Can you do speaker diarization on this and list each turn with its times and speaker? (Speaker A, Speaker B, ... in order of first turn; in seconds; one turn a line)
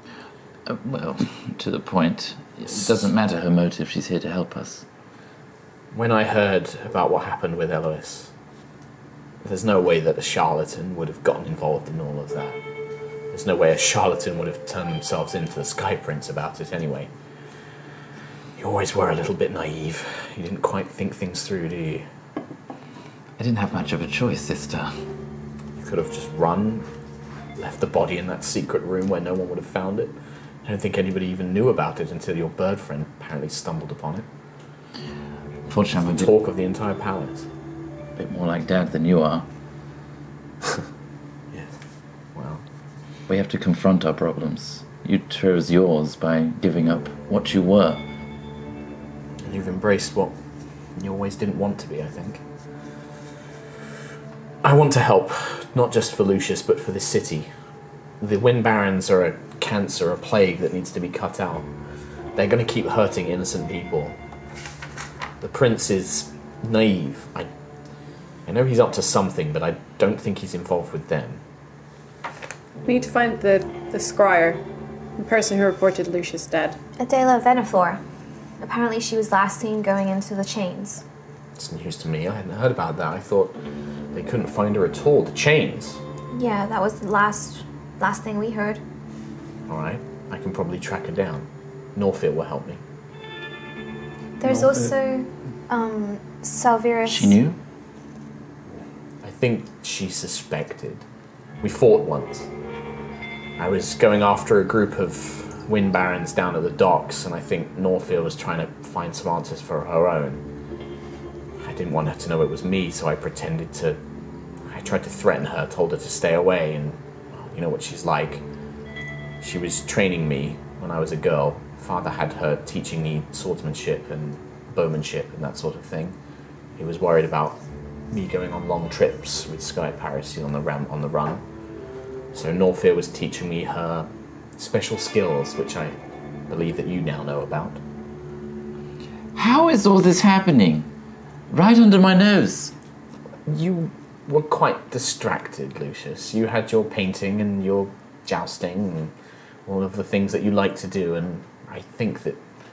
Speaker A: 0.7-4.8
Speaker B: 5.9-8.3
Speaker B: 9.4-12.6
Speaker B: 13.3-17.1
Speaker B: 18.6-22.1
Speaker A: 23.4-24.9
Speaker B: 25.8-26.9
Speaker B: 27.6-34.2
Speaker A: 35.7-36.3
Speaker B: 36.1-37.5
Speaker A: 38.1-39.5
Speaker B: 42.4-42.6
Speaker A: 43.3-48.0
Speaker B: 49.4-50.3
Speaker B: 51.0-52.4
Speaker B: 54.6-57.5
Speaker B: 58.2-61.7
Speaker B: 62.4-64.1
Speaker B: 65.4-67.5
Speaker B: 68.5-71.4
Speaker C: 72.8-74.6
Speaker C: 75.2-76.8
Speaker D: 77.0-78.0
Speaker D: 78.6-81.0
Speaker B: 81.6-83.5
Speaker B: 84.1-86.0
Speaker D: 86.3-88.8
Speaker B: 89.7-92.8
Speaker D: 94.4-97.4
Speaker A: 97.1-97.6
Speaker B: 99.2-101.0
Speaker B: 101.6-102.5
Speaker B: 103.6-110.4
Speaker B: 111.6-114.0
Speaker B: 114.7-118.4
Speaker B: 119.4-126.1
Speaker B: 126.8-127.6
Speaker B: 128.1-131.4
Speaker B: 132.3-135.9
Speaker B: 136.5-137.8
Speaker A: 139.3-140.9
Speaker A: 141.5-142.7
Speaker B: 143.5-149.1
Speaker B: 149.7-152.4